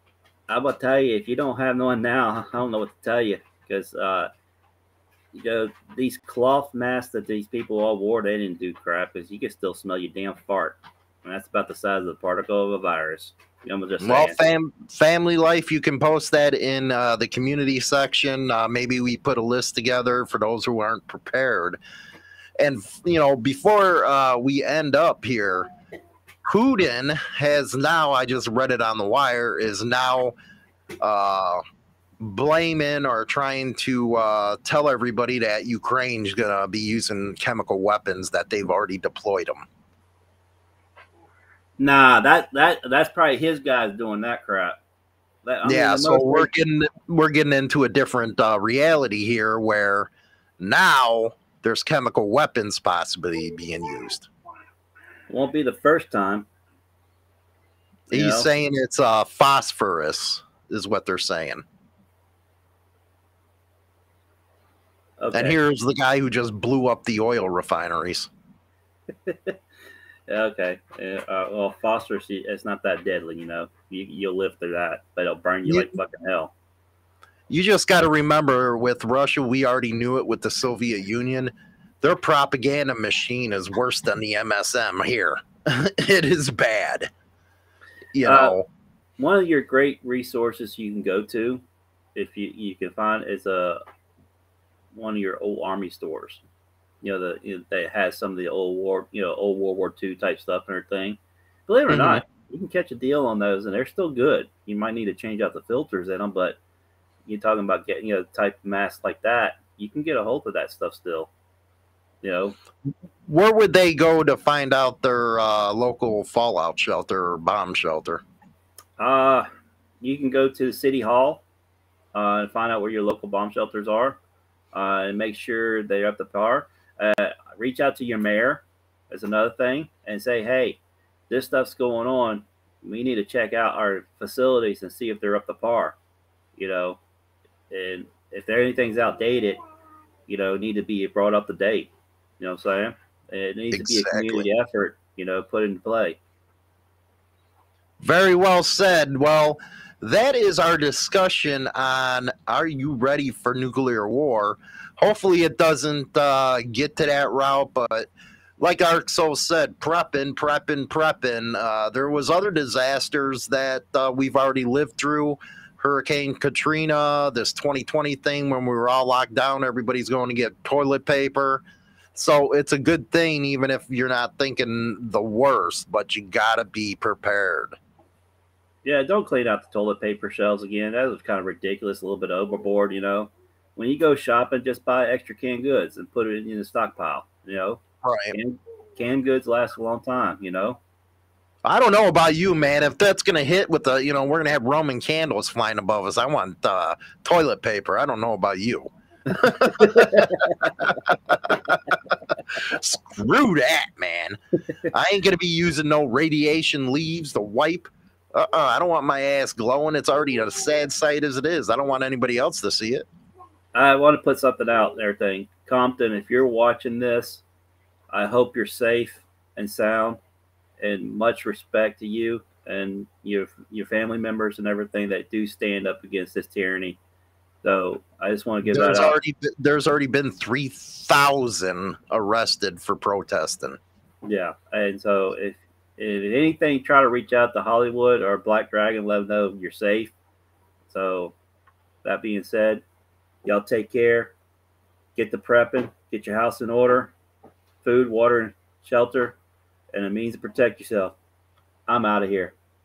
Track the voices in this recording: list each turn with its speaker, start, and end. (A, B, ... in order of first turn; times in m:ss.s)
0:00.5-0:04.3 A
0:05.3-0:14.4 A
0:14.0-0:21.8 B
0:22.6-0:25.7 B
0:26.4-0:30.3 B
0:31.0-0:31.6 B
0:32.2-0:39.6 B
0:41.8-0:44.8 A
0:45.4-0:46.5 A
0:45.6-0:54.3 B
0:55.3-0:56.5 A
0:58.1-1:01.6 B
0:58.1-0:58.5 A
1:05.2-1:05.6 A
1:05.3-1:08.3 B
1:09.2-1:09.6 A
1:10.3-1:16.5 A
1:17.5-1:27.1 B
1:28.1-1:28.6 B
1:28.2-1:28.6 A
1:29.2-1:31.6 A
1:32.1-1:33.8 A
1:34.9-1:36.4 A
1:37.0-1:46.6 A
1:41.9-1:42.2 B
1:47.3-1:51.3 A
1:52.2-1:52.6 A
1:53.2-1:58.2 B
1:59.0-1:59.5 A
2:00.0-2:01.4 A
2:02.1-2:04.2 A
2:04.7-2:16.0 A
2:16.6-2:17.0 A
2:17.7-2:19.6 A
2:20.3-2:26.2 A
2:23.7-2:24.4 B
2:28.0-2:38.1 B
2:38.6-2:51.6 B
2:52.1-2:57.8 B
2:58.8-3:07.8 A
3:08.0-3:08.4 B
3:08.3-3:10.8 A
3:11.6-3:22.0 B
3:19.6-3:21.0 A
3:22.5-3:24.4 B
3:24.9-3:33.1 B
3:33.7-3:37.4 A
3:38.1-3:40.2 A
3:40.8-3:47.0 A
3:47.6-3:49.2 A
3:48.6-3:53.8 B
3:54.2-4:00.1 A
4:00.9-4:01.3 A
4:02.0-4:02.8 A
4:03.4-4:04.3 A
4:05.2-4:07.1 A
4:07.8-4:09.4 A
4:09.9-4:11.2 A
4:11.9-4:12.5 A